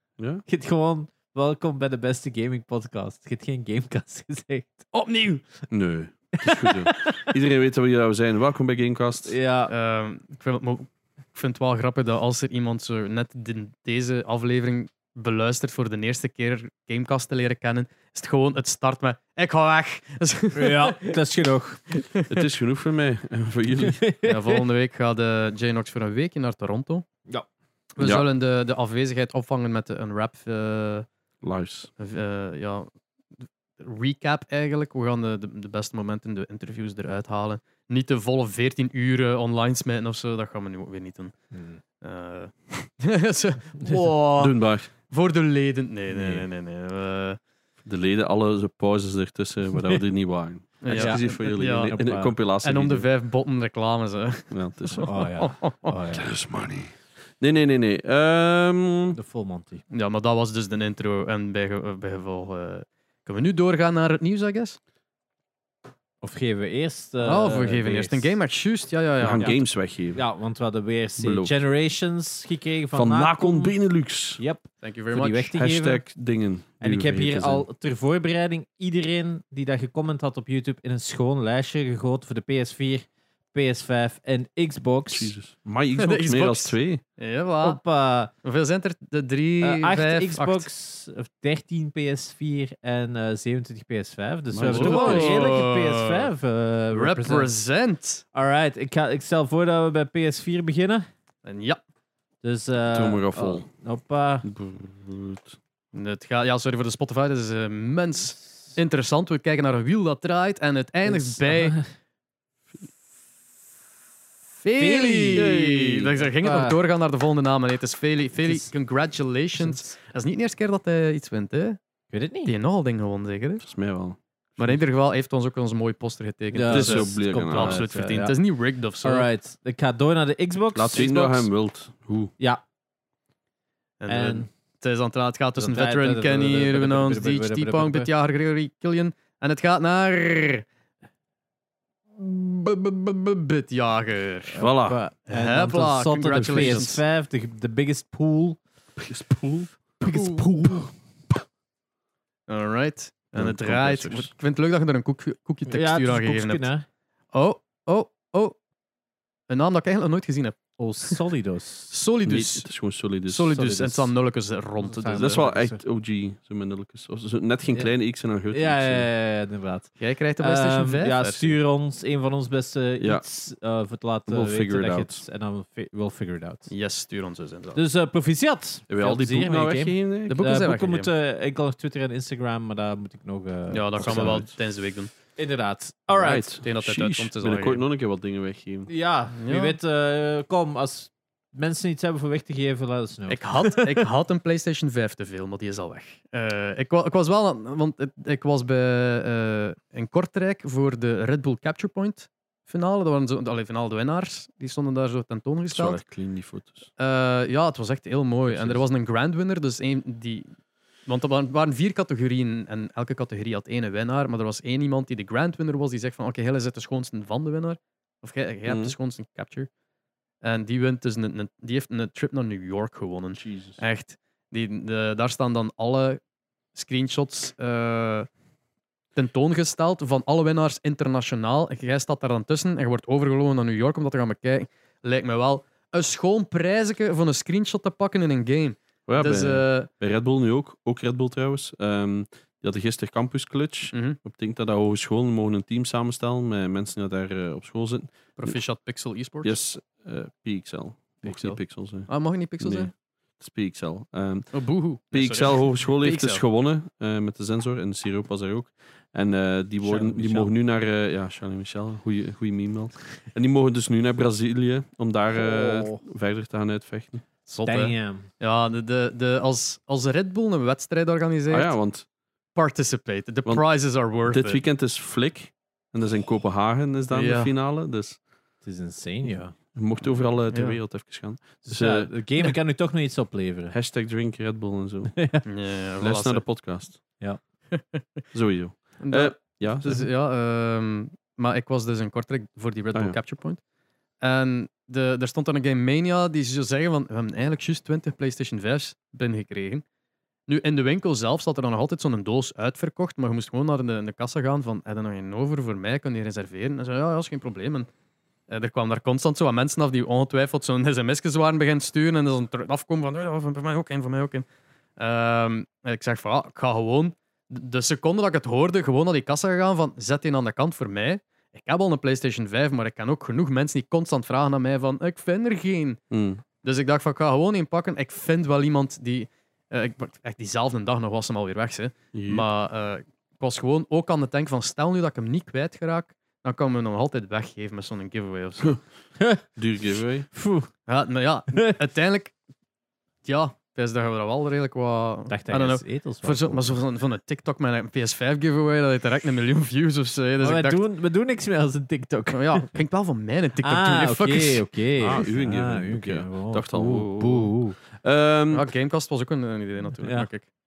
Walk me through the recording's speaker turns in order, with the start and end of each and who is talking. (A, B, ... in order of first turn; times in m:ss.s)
0:00.2-0:00.4 A
0:00.4-0:04.9 B
0:04.9-0:05.4 C
0:05.7-0:09.4 A
0:06.4-0:07.3 B
0:09.2-0:09.7 B
0:09.7-0:21.2 C
0:20.5-0:21.9 B
0:21.9-0:22.2 C
0:22.3-0:24.0 A
0:23.8-0:24.6 B
0:24.2-0:27.0 C
0:28.0-0:31.1 C
0:28.0-0:28.2 A
0:31.4-0:31.9 A
0:32.0-0:32.9 C
0:33.8-0:41.3 C
0:41.5-0:41.8 B
0:42.0-0:47.4 C
0:44.4-0:44.9 A
0:46.1-0:46.5 B
0:47.8-0:53.0 A
0:50.8-0:52.0 C
0:50.9-0:52.4 B
0:52.6-0:56.0 C
0:54.5-0:55.1 A
0:55.0-0:56.3 B
0:56.1-0:59.2 A
0:59.1-0:59.8 B
0:59.9-1:04.8 C
1:06.2-1:08.3 B
1:07.2-1:09.5 C
1:09.2-1:10.2 A
1:10.1-1:13.7 B
1:11.2-1:11.6 A
1:12.9-1:14.4 A
1:14.4-1:16.0 B
1:14.8-1:15.5 C
1:15.5-1:17.6 A
1:16.8-1:25.3 B
1:25.1-1:27.0 A
1:26.0-1:27.8 C
1:27.6-1:28.3 B
1:28.4-1:30.6 C
1:29.6-1:37.5 B
1:34.5-1:35.4 A
1:34.6-1:36.3 C
1:36.9-1:38.2 C
1:38.3-1:41.1 B
1:41.4-1:41.8 C
1:42.4-1:44.5 B
1:42.8-1:43.7 A
1:44.4-1:45.6 A
1:45.9-1:51.8 C
1:51.0-1:51.8 B
1:54.6-2:01.8 C
1:54.8-1:55.5 B
1:55.4-1:56.1 A
1:56.4-1:56.8 B
1:58.4-1:58.7 B
1:59.6-1:59.9 B
2:02.1-2:02.5 B
2:02.4-2:03.6 C
2:03.6-2:04.8 A
2:04.6-2:09.3 C
2:06.5-2:08.4 B
2:06.7-2:07.8 A
2:09.0-2:11.5 B
2:10.7-2:12.3 A
2:14.0-2:20.6 C
2:14.1-2:14.5 B
2:15.6-2:18.1 B
2:22.2-2:24.6 C
2:24.5-2:28.6 B
2:24.6-2:25.0 A
2:25.3-2:27.0 C
2:26.3-2:27.0 A
2:29.0-2:29.7 A
2:30.0-2:30.9 B
2:30.1-2:30.4 C
2:32.5-2:36.7 C
2:33.3-2:34.3 A
2:35.7-2:36.8 B
2:37.3-2:38.6 C
2:39.5-2:41.2 C
2:40.8-2:41.9 B
2:41.9-2:42.7 C
2:42.2-2:43.5 A
2:43.2-2:45.4 C
2:43.5-2:44.1 B
2:44.8-2:45.8 B
2:45.1-2:49.1 A
2:48.5-2:56.7 B
2:50.0-2:51.5 C
2:54.3-2:55.2 A
2:56.7-2:57.8 C
2:57.7-3:04.5 B
2:58.9-3:00.4 A
3:00.3-3:01.1 C
3:03.7-3:05.1 C
3:04.0-3:04.4 A
3:05.4-3:06.4 B
3:06.1-3:08.9 A
3:06.2-3:07.8 C
3:08.9-3:14.1 B
3:09.4-3:09.8 C
3:13.3-3:26.0 C
3:25.7-3:26.9 A
3:27.0-3:30.5 C
3:28.5-3:28.8 A
3:31.0-3:39.7 C
3:38.6-3:38.9 A
3:40.4-3:46.2 C
3:43.3-3:43.8 A
3:46.7-3:48.3 C
3:49.2-3:59.9 C
3:59.1-4:08.6 A
4:03.9-4:04.2 C
4:08.4-4:09.6 C
4:09.4-4:14.5 A
4:11.2-4:12.9 C
4:14.5-4:16.4 C
4:15.1-4:27.2 A
4:19.8-4:20.5 C
4:25.3-4:26.0 B
4:27.5-4:31.7 C
4:27.6-4:28.3 B
4:31.5-4:32.0 A
4:32.5-4:34.6 C
4:34.2-4:38.2 A
4:37.1-4:37.5 C
4:38.6-4:39.5 B
4:39.7-4:42.1 A
4:40.5-4:40.8 C
4:41.6-4:43.7 B
4:43.7-4:45.2 A
4:45.1-4:45.4 B
4:45.4-4:46.4 C
4:46.0-4:47.0 A
4:47.7-4:48.0 C
4:48.3-4:50.0 A
4:49.0-4:53.6 C
4:54.2-4:59.8 C
5:00.5-5:07.9 C
5:08.5-5:14.4 C
5:15.0-5:26.0 C
5:26.1-5:26.4 A
5:26.6-5:38.8 C
5:32.1-5:32.5 A
5:39.2-5:39.4 B
5:39.5-5:40.3 A
5:40.3-5:40.7 B
5:40.9-5:42.3 C
5:43.2-5:50.8 C
5:45.3-5:46.7 B
5:50.4-5:52.7 B
5:52.3-5:54.7 C
5:53.6-5:57.8 B
5:55.0-5:58.7 A
5:58.5-6:00.4 C
6:00.0-6:00.3 B